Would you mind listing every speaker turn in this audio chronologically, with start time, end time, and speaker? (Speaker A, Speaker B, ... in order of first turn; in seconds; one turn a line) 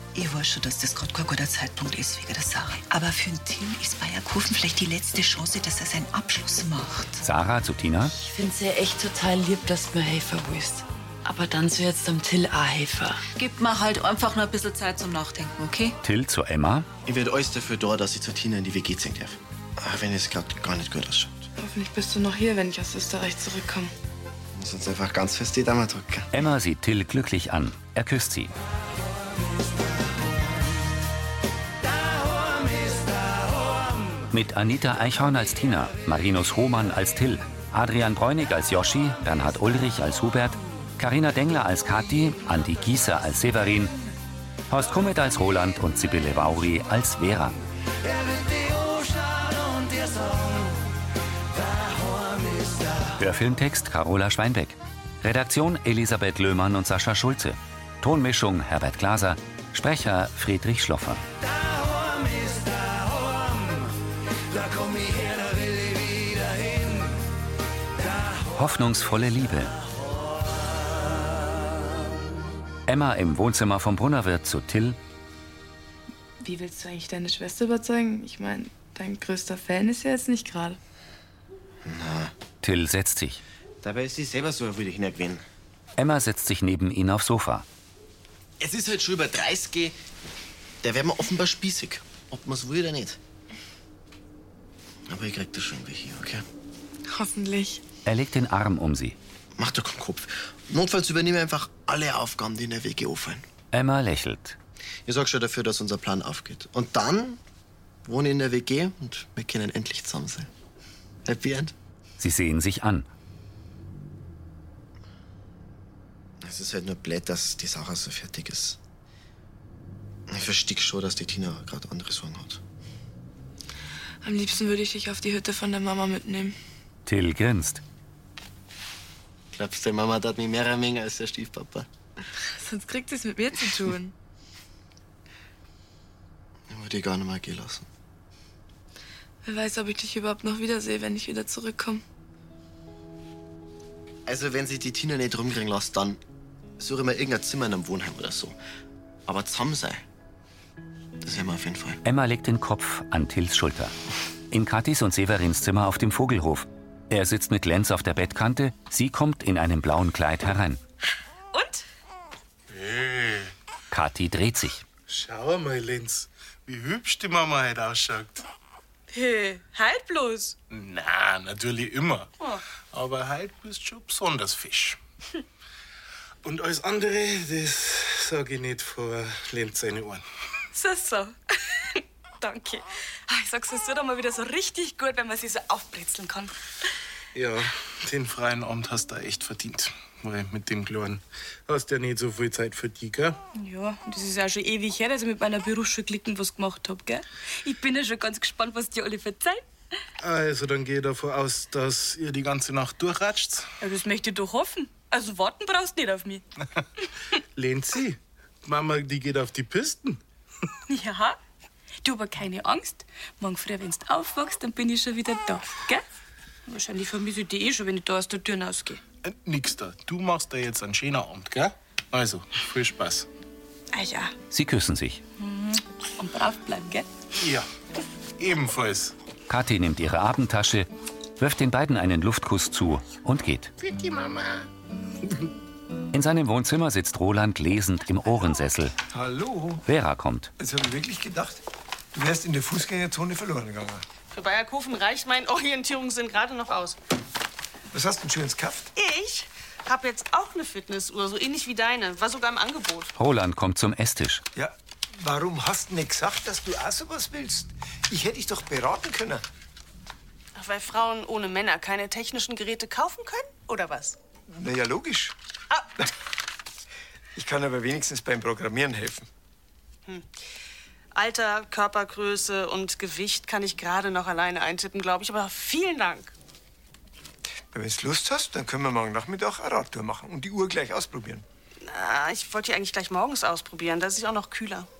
Speaker A: 0.1-7.2
Speaker B: 7.2-8.1
Speaker C: 8.2-13.2
Speaker D: 13.3-16.0
Speaker B: 16.0-16.9
Speaker E: 17.0-21.5
Speaker F: 21.6-23.9
Speaker E: 24.5-26.3
Speaker B: 26.3-28.5
Speaker B: 34.3-43.9
Speaker B: 44.7-47.6
Speaker B: 53.1-61.2
Speaker B: 68.5-69.8
Speaker B: 72.9-75.0
Speaker F: 76.4-80.8
Speaker E: 81.8-82.3
Speaker B: 82.6-83.4
Speaker E: 83.8-85.4
Speaker B: 86.0-87.6
Speaker E: 88.6-90.0
Speaker E: 90.8-93.2
Speaker E: 95.1-96.4
Speaker F: 97.1-97.8
Speaker B: 98.0-99.2
Speaker E: 99.5-103.4
Speaker B: 103.7-104.6
Speaker E: 105.0-107.4
Speaker E: 108.0-110.5
Speaker E: 111.2-111.7
Speaker B: 112.2-113.1
Speaker E: 116.4-118.8
Speaker E: 120.3-122.6
Speaker F: 124.2-126.5
Speaker B: 127.0-127.8
Speaker E: 129.5-131.9
Speaker F: 132.5-134.1
Speaker E: 136.7-137.8
Speaker F: 139.4-142.0
Speaker E: 144.2-146.2
Speaker E: 146.8-148.6
Speaker E: 149.3-150.0
Speaker E: 151.2-152.0
Speaker B: 152.0-153.9
Speaker B: 154.5-160.8
Speaker F: 161.5-161.8
Speaker G: 162.7-163.5
Speaker B: 163.9-164.8
Speaker G: 165.1-168.4
Speaker F: 169.1-170.6
Speaker G: 170.7-172.3
Speaker G: 172.9-175.0
Speaker G: 176.4-180.2
Speaker F: 180.7-181.3
Speaker F: 181.9-186.5
Speaker G: 187.3-193.4
Speaker F: 193.5-199.6
Speaker G: 200.2-203.7
Speaker F: 203.8-206.4
Speaker G: 207.6-210.2
Speaker F: 210.9-211.4
Speaker F: 212.0-216.0
Speaker F: 216.7-219.0
Speaker G: 219.2-223.3
Speaker F: 223.9-224.3
Speaker B: 224.5-225.2
Speaker F: 225.4-227.1
Speaker G: 227.3-227.7
Speaker G: 228.4-229.1
Speaker B: 229.5-233.7
Speaker B: 236.1-238.9
Speaker H: 239.1-239.8
Speaker B: 239.8-240.5
Speaker H: 240.6-244.0
Speaker I: 244.3-247.0
Speaker H: 247.9-248.9
Speaker I: 248.9-253.1
Speaker B: 253.2-254.4
Speaker H: 254.5-259.4
Speaker I: 260.5-264.2
Speaker H: 264.5-265.3
Speaker H: 267.3-269.3
Speaker I: 271.1-276.3
Speaker H: 277.7-281.4
Speaker I: 281.8-284.9